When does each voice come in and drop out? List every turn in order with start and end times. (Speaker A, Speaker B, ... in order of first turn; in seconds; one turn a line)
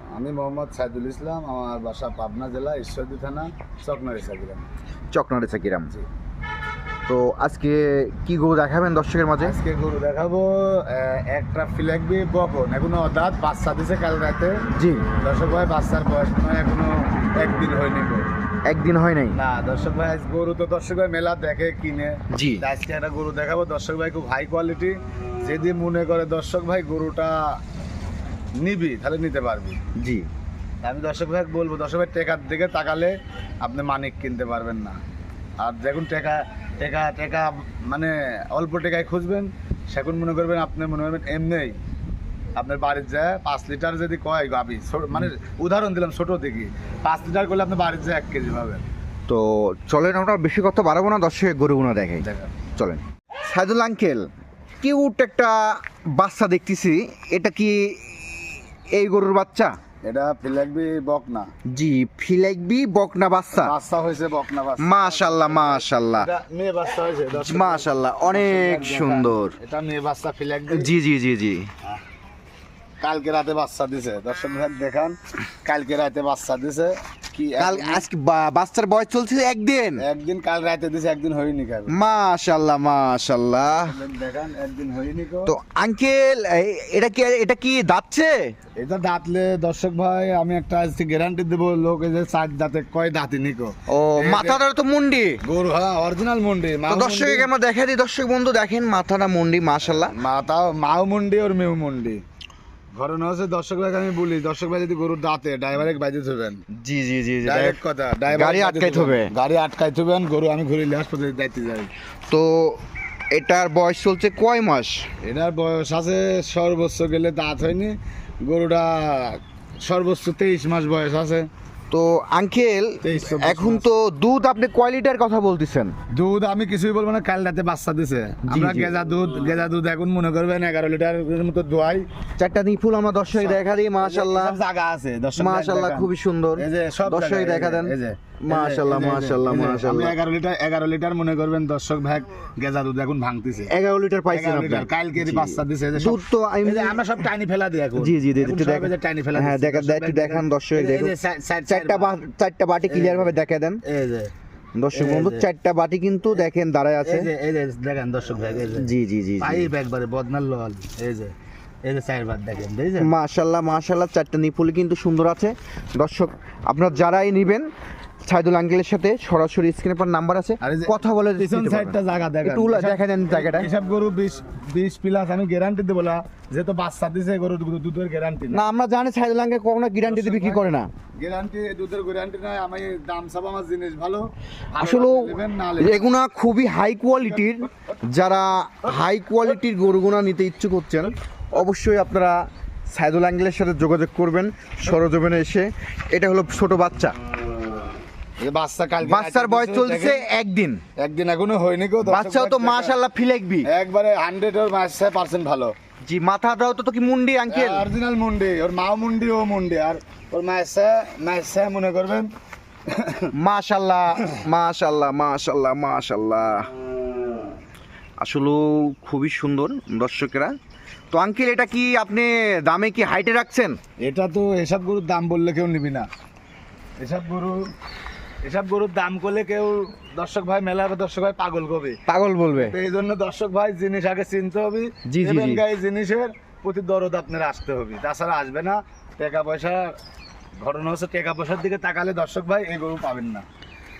Speaker A: 0.1-4.7
Speaker B: 5.1-5.9
Speaker B: 7.1-9.6
Speaker A: 9.4-14.6
Speaker B: 14.8-15.1
Speaker A: 15.2-18.3
Speaker B: 18.7-19.4
Speaker A: 19.3-27.4
Speaker B: 22.3-22.6
Speaker A: 28.6-29.8
Speaker B: 30.0-30.3
Speaker A: 30.8-35.0
Speaker A: 35.6-41.8
Speaker A: 42.6-48.9
Speaker B: 49.3-54.3
Speaker A: 52.2-52.5
Speaker B: 54.8-59.8
Speaker A: 60.0-61.5
Speaker B: 61.7-63.7
Speaker A: 63.5-70.9
Speaker B: 64.8-66.3
Speaker B: 67.3-69.5
Speaker B: 70.7-71.7
Speaker A: 73.0-78.0
Speaker B: 77.6-80.0
Speaker A: 80.0-81.9
Speaker B: 81.9-83.9
Speaker A: 83.8-85.5
Speaker B: 85.5-88.4
Speaker A: 88.8-94.6
Speaker B: 93.9-95.4
Speaker A: 95.4-97.5
Speaker B: 96.9-100.1
Speaker A: 100.1-102.2
Speaker A: 103.0-106.6
Speaker B: 106.7-107.8
Speaker A: 107.5-111.9
Speaker B: 108.3-109.3
Speaker B: 112.3-112.8
Speaker B: 113.3-115.0
Speaker A: 115.2-121.5
Speaker B: 121.9-125.9
Speaker A: 123.0-123.9
Speaker A: 126.1-132.0
Speaker B: 128.5-128.9
Speaker B: 132.4-134.6
Speaker A: 133.3-143.7
Speaker B: 135.4-140.2
Speaker B: 143.7-146.9
Speaker A: 144.3-152.2
Speaker B: 148.0-151.1
Speaker B: 151.7-153.8
Speaker A: 152.8-154.3
Speaker B: 154.8-157.3
Speaker A: 154.9-155.4
Speaker A: 157.0-161.3
Speaker B: 158.8-159.7
Speaker A: 161.8-163.1
Speaker B: 163.0-167.7
Speaker B: 168.3-173.7
Speaker A: 170.6-178.6
Speaker B: 178.5-180.9
Speaker A: 180.0-186.0
Speaker B: 184.8-192.4
Speaker B: 192.9-197.1
Speaker A: 198.4-200.2
Speaker B: 199.0-200.8
Speaker A: 201.0-203.0
Speaker B: 202.0-203.7
Speaker A: 203.7-205.7
Speaker B: 206.0-207.8
Speaker A: 207.5-212.3
Speaker A: 212.9-213.3
Speaker B: 213.3-216.7
Speaker B: 218.2-220.5
Speaker B: 221.1-223.8
Speaker A: 224.0-226.1
Speaker A: 227.0-227.6
Speaker A: 228.4-232.0
Speaker B: 232.1-232.7
Speaker A: 232.6-239.9
Speaker B: 235.1-235.6
Speaker A: 240.6-243.4